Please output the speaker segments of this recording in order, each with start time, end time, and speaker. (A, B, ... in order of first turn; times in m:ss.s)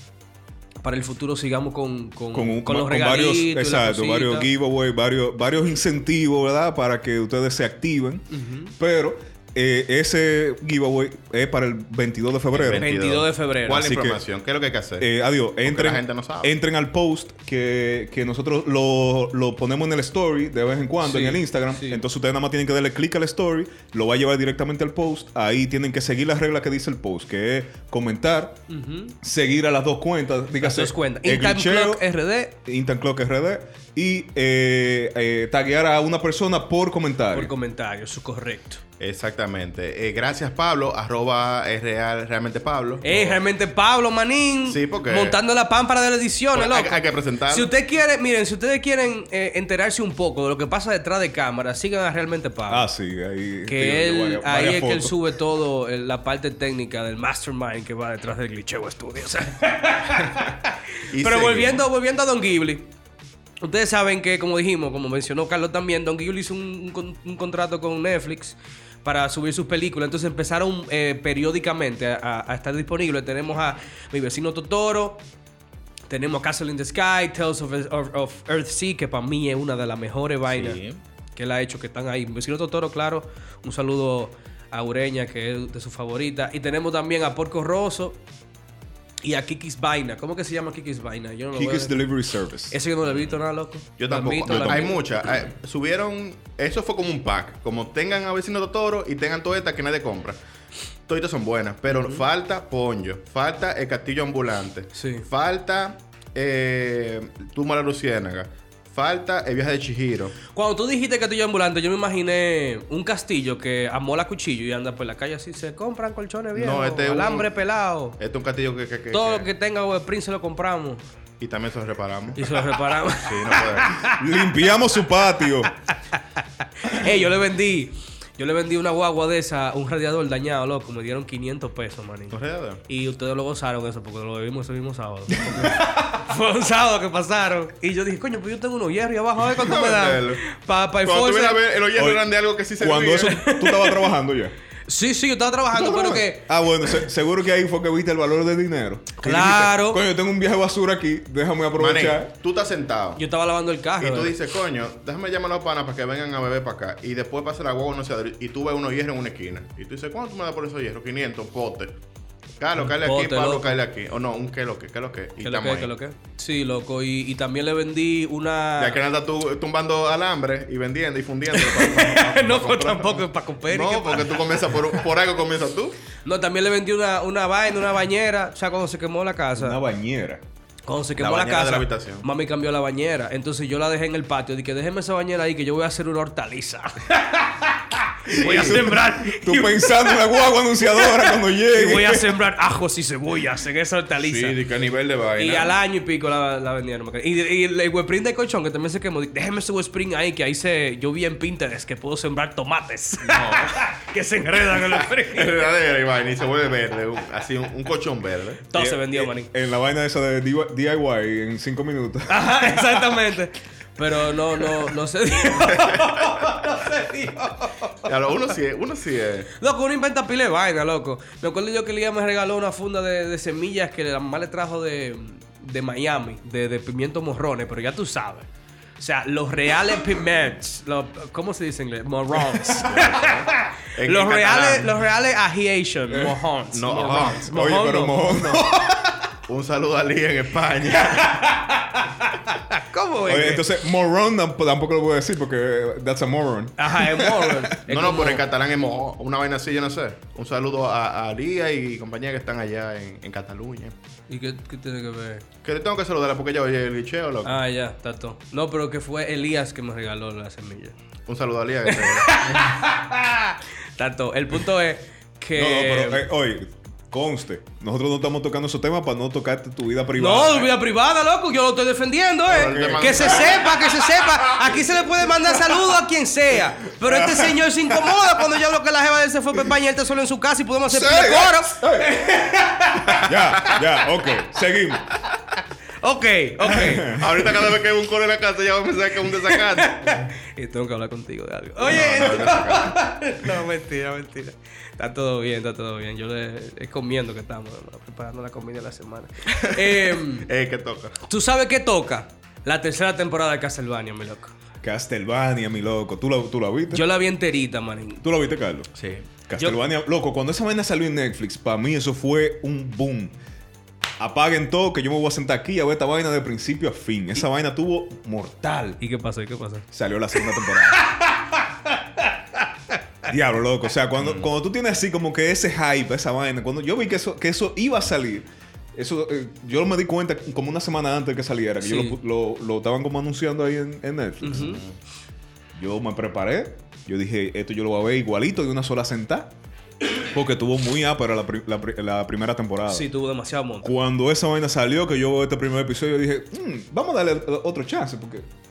0:00.8-0:04.5 A
0:02.3-0:12.9 B
0:08.3-0:08.7 A
0:12.5-0:15.1 C
0:12.7-0:13.8 A
0:13.8-0:14.2 B
0:15.0-0:28.6 B
0:15.6-0:16.5 C
0:21.0-0:22.0 A
0:28.7-0:29.2 A
0:29.2-0:32.1 B
0:30.6-0:32.5 A
0:32.6-0:37.5 B
0:37.3-0:38.8 A
0:39.0-0:43.4 C
0:43.0-0:52.9 A
0:44.7-0:45.4 C
0:46.5-0:47.7 C
0:52.7-0:55.2 B
0:53.7-1:02.9 A
1:01.1-1:01.8 C
1:03.6-1:15.2 A
1:16.1-1:20.8 A
1:20.5-1:21.0 C
1:21.4-1:28.2 A
1:29.2-1:32.1 A
1:31.5-1:32.8 B
1:32.7-1:35.0 A
1:34.0-1:40.4 C
1:34.4-1:34.9 B
1:41.1-1:50.4 C
1:41.9-1:42.2 A
1:45.0-1:45.2 A
1:50.5-1:58.2 A
1:56.6-1:57.5 C
1:58.2-1:59.5 C
1:59.1-2:01.0 A
2:01.4-2:04.0 C
2:02.4-2:04.2 A
2:04.1-2:05.7 B
2:06.8-2:12.4 A
2:12.3-2:12.8 C
2:12.9-2:21.6 A
2:15.5-2:16.1 B
2:19.5-2:20.4 C
2:21.0-2:23.4 C
2:22.0-2:22.3 B
2:22.8-2:24.5 B
2:23.2-2:24.1 A
2:24.9-2:27.0 A
2:25.7-2:32.3 B
2:29.2-2:30.0 A
2:31.8-2:33.2 C
2:33.2-2:34.4 A
2:34.0-2:42.0 C
2:42.6-2:45.9 C
2:42.8-2:43.8 A
2:45.4-2:49.0 A
2:48.8-2:56.0 C
2:51.5-2:54.8 A
2:56.2-2:59.8 A
2:59.6-3:00.4 B
3:00.9-3:07.7 A
3:01.2-3:02.2 C
3:08.3-3:12.4 B
3:08.3-3:14.6 A
3:08.4-3:08.8 C
3:14.2-3:15.8 C
3:15.4-3:25.7 A
3:23.2-3:23.8 C
3:24.8-3:28.6 C
3:28.7-3:29.5 A
3:28.8-3:33.2 B
3:32.3-3:38.0 A
3:35.8-3:36.1 C
3:38.0-3:39.5 C
3:39.6-3:48.5 A
3:49.0-3:58.6 A
3:52.8-3:55.0 C
3:56.1-3:56.4 B
3:56.7-3:57.5 C
3:57.2-3:59.3 B
3:59.5-4:01.5 C
4:02.4-4:03.7 A
4:03.3-4:07.8 B
4:06.8-4:08.4 A
4:07.9-4:13.9 C
4:14.3-4:15.4 A
4:15.6-4:17.6 C
4:17.4-4:21.0 A
4:21.3-4:22.8 C
4:21.9-4:26.3 A
4:25.6-4:30.7 B
4:30.2-4:43.3 A
4:32.5-4:33.9 C
4:32.6-4:33.8 B
4:34.5-4:34.8 B
4:35.5-4:35.8 B
4:37.0-4:38.3 B
4:40.9-4:42.2 B
4:43.2-4:45.2 B
4:46.0-4:47.2 A
4:46.7-4:47.6 B
4:47.0-4:50.1 C
4:49.5-5:00.5 A
4:51.8-4:53.0 C
4:59.5-5:01.2 C
5:01.2-5:04.5 A
5:04.8-5:07.0 B
5:06.9-5:08.2 A
5:08.2-5:08.9 B
5:09.0-5:09.2 C
5:09.5-5:13.4 B
5:14.2-5:19.0 B
5:19.0-5:19.9 A
5:19.9-5:21.1 B
5:23.2-5:34.8 B
5:24.2-5:24.5 C
5:31.8-5:32.2 A
5:34.4-5:34.8 A
5:34.5-5:34.9 C
5:35.8-5:39.5 B
5:40.2-5:43.1 B
5:42.9-5:43.9 A
5:43.8-5:48.5 B